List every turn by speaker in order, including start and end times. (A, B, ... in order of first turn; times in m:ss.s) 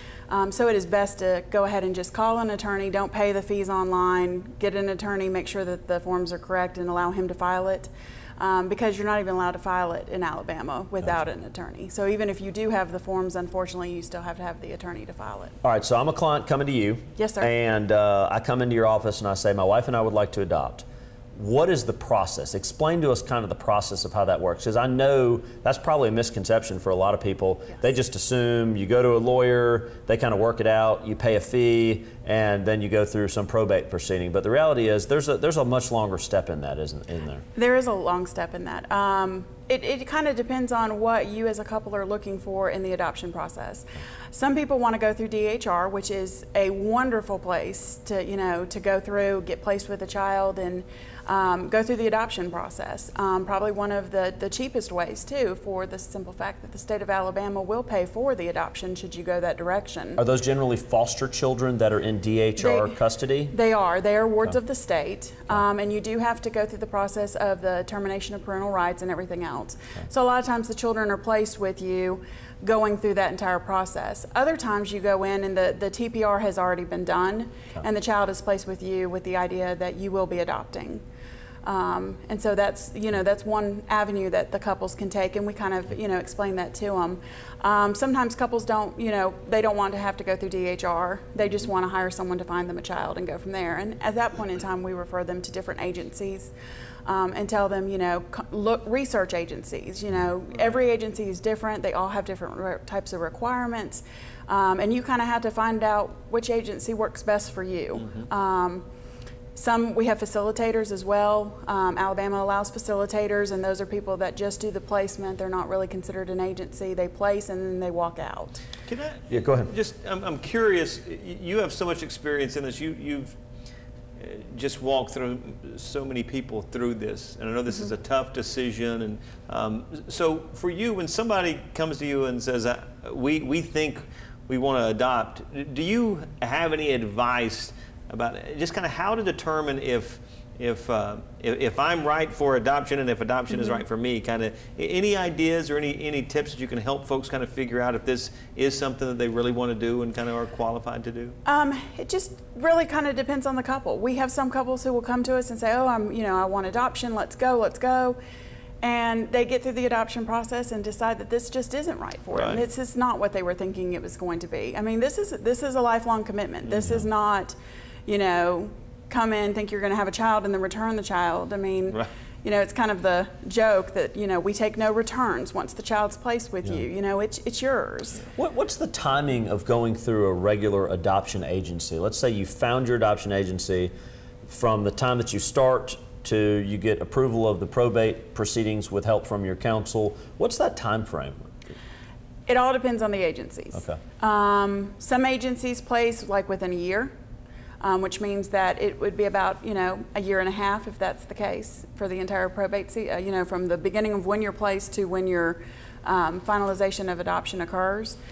0:00.3-0:15.6 A
0:15.6-0:37.4 B
0:17.2-0:17.5 A
0:37.6-1:00.2 A
1:00.2-1:03.5 B
1:02.6-1:03.0 A
1:03.5-1:21.0 A
1:21.6-1:36.5 A
1:37.0-1:48.8 A
1:49.5-1:58.6 A
1:58.9-2:03.4 C
1:59.3-1:59.7 B
2:04.2-2:31.4 C
2:23.5-2:23.8 A
2:31.4-2:38.2 A
2:38.8-2:58.2 A
2:42.3-2:42.6 C
2:58.4-3:03.9 B
3:04.4-3:11.5 B
3:12.5-3:17.1 A
3:13.7-3:14.0 B
3:17.8-3:28.2 A